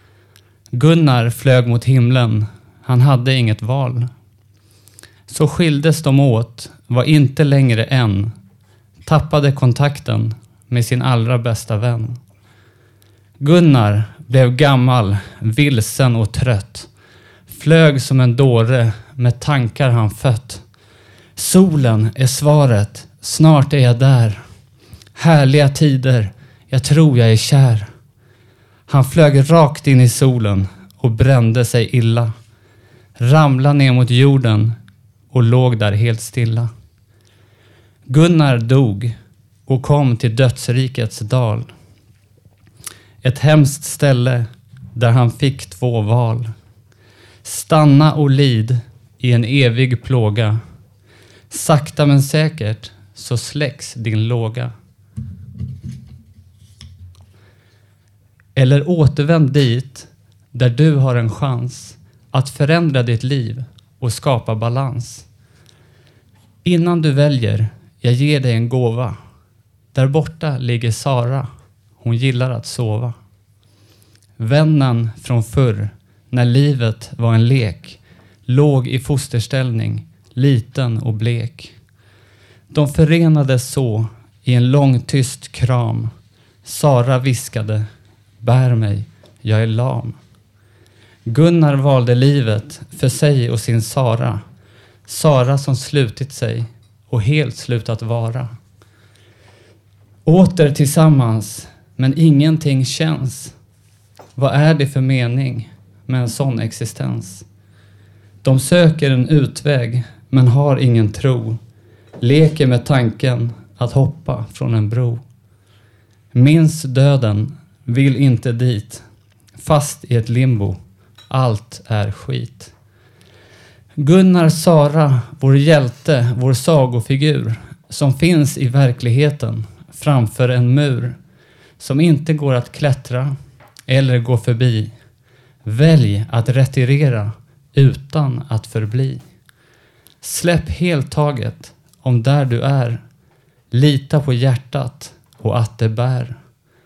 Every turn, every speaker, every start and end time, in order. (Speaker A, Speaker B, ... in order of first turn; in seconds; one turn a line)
Speaker A: 0.7-4.1
Speaker A: 5.3-8.3
Speaker A: 9.0-12.2
Speaker A: 13.4-16.9
Speaker A: 17.5-20.7
Speaker A: 21.4-24.4
Speaker A: 25.1-27.9
Speaker A: 28.9-32.3
Speaker A: 33.2-34.8
Speaker A: 35.3-36.7
Speaker A: 38.1-39.1
Speaker A: 39.7-41.7
Speaker A: 43.2-46.5
Speaker A: 47.4-50.6
Speaker A: 51.5-54.7
Speaker A: 58.5-65.2
Speaker A: 66.6-69.2
Speaker A: 69.9-73.2
Speaker A: 74.4-81.7
Speaker A: 82.7-86.1
Speaker A: 86.6-87.9
Speaker A: 88.4-90.2
Speaker A: 91.3-94.4
Speaker A: 95.1-98.5
Speaker A: 100.2-103.5
Speaker A: 104.3-107.4
Speaker A: 108.4-111.6
Speaker A: 112.2-115.2
Speaker A: 116.3-119.0
Speaker A: 119.6-120.8
Speaker A: 121.3-122.7
Speaker A: 124.0-131.2
Speaker A: 131.8-133.4
Speaker A: 133.9-134.9
Speaker A: 135.7-139.2
Speaker A: 140.2-143.0
Speaker A: 143.7-146.4